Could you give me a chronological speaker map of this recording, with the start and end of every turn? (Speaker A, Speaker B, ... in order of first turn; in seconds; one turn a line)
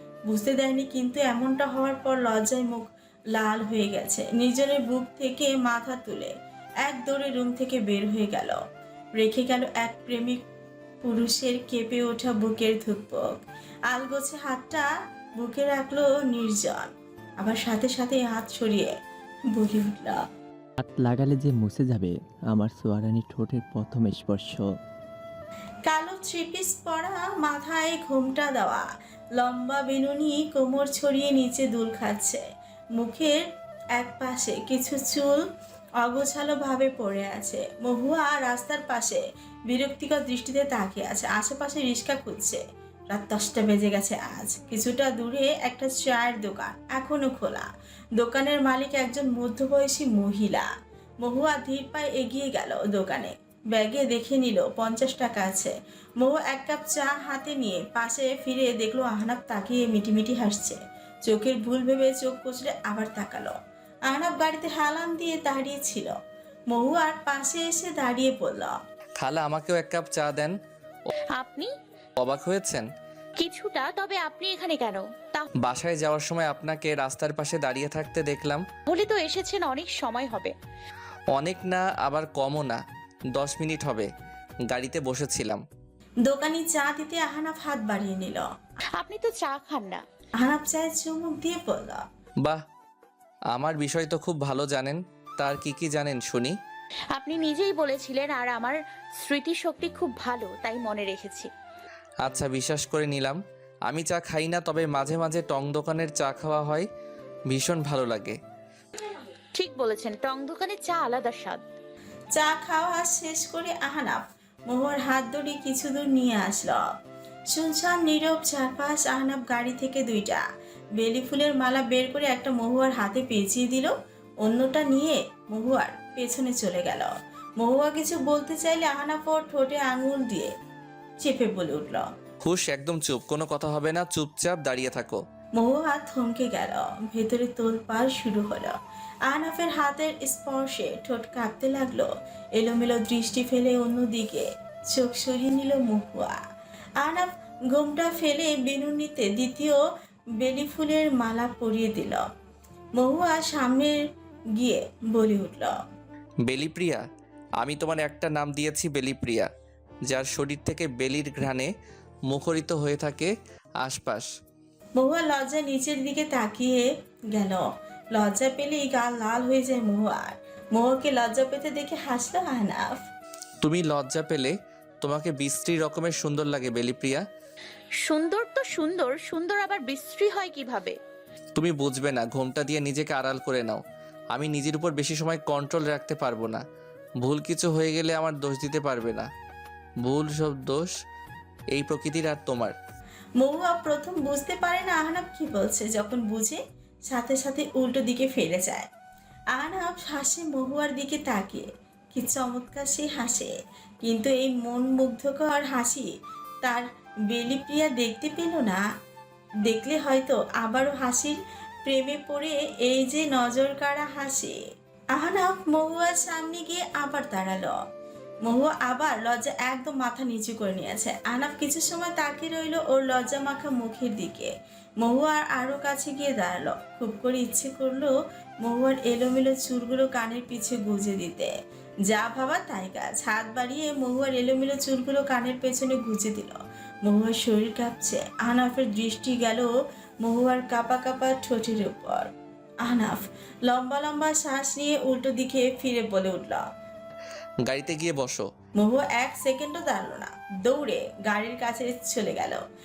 Speaker A: 0.3-6.3
Speaker A: 6.8-8.6
Speaker A: 9.2-10.4
Speaker A: 11.0-14.9
Speaker A: 15.4-18.9
Speaker A: 19.5-20.2
Speaker B: 20.8-24.7
Speaker A: 25.9-28.9
Speaker A: 29.4-32.4
Speaker A: 33.0-33.4
Speaker A: 34.0-35.4
Speaker A: 36.0-50.7
Speaker A: 51.2-63.5
Speaker A: 64.1-66.2
Speaker A: 66.7-68.8
Speaker C: 69.2-70.5
Speaker D: 71.3-71.7
Speaker C: 72.2-72.9
Speaker D: 73.4-75.5
Speaker C: 75.6-78.7
Speaker D: 78.9-80.5
Speaker C: 81.3-82.8
Speaker C: 83.3-84.1
Speaker C: 84.7-85.6
Speaker A: 86.3-88.5
Speaker D: 89.0-90.0
Speaker A: 90.4-92.0
Speaker C: 93.5-96.6
Speaker D: 97.2-101.5
Speaker C: 102.2-106.9
Speaker C: 107.5-108.4
Speaker D: 109.5-111.6
Speaker A: 112.3-116.8
Speaker A: 117.5-120.4
Speaker A: 121.0-123.9
Speaker A: 124.4-130.5
Speaker A: 131.2-132.1
Speaker C: 132.4-135.2
Speaker A: 135.6-138.8
Speaker A: 139.3-146.4
Speaker A: 147.0-149.8
Speaker A: 150.4-152.2
Speaker A: 153.0-154.0
Speaker A: 154.6-155.7
Speaker C: 156.5-157.0
Speaker C: 157.6-159.5
Speaker C: 160.1-161.7
Speaker C: 162.3-164.3
Speaker A: 165.0-173.0
Speaker C: 173.6-177.3
Speaker D: 178.0-181.0
Speaker C: 181.6-183.8
Speaker C: 184.3-186.6
Speaker C: 187.2-189.3
Speaker C: 190.1-190.9
Speaker C: 191.8-192.8
Speaker A: 193.4-196.6
Speaker A: 197.1-198.9
Speaker A: 199.6-203.5
Speaker A: 204.1-206.1
Speaker A: 206.6-208.8
Speaker A: 209.7-214.6
Speaker A: 215.2-217.8
Speaker A: 218.5-231.5
Speaker A: 232.1-239.7
Speaker A: 240.2-242.3
Speaker A: 242.8-246.6
Speaker C: 247.6-248.5
Speaker A: 248.8-252.6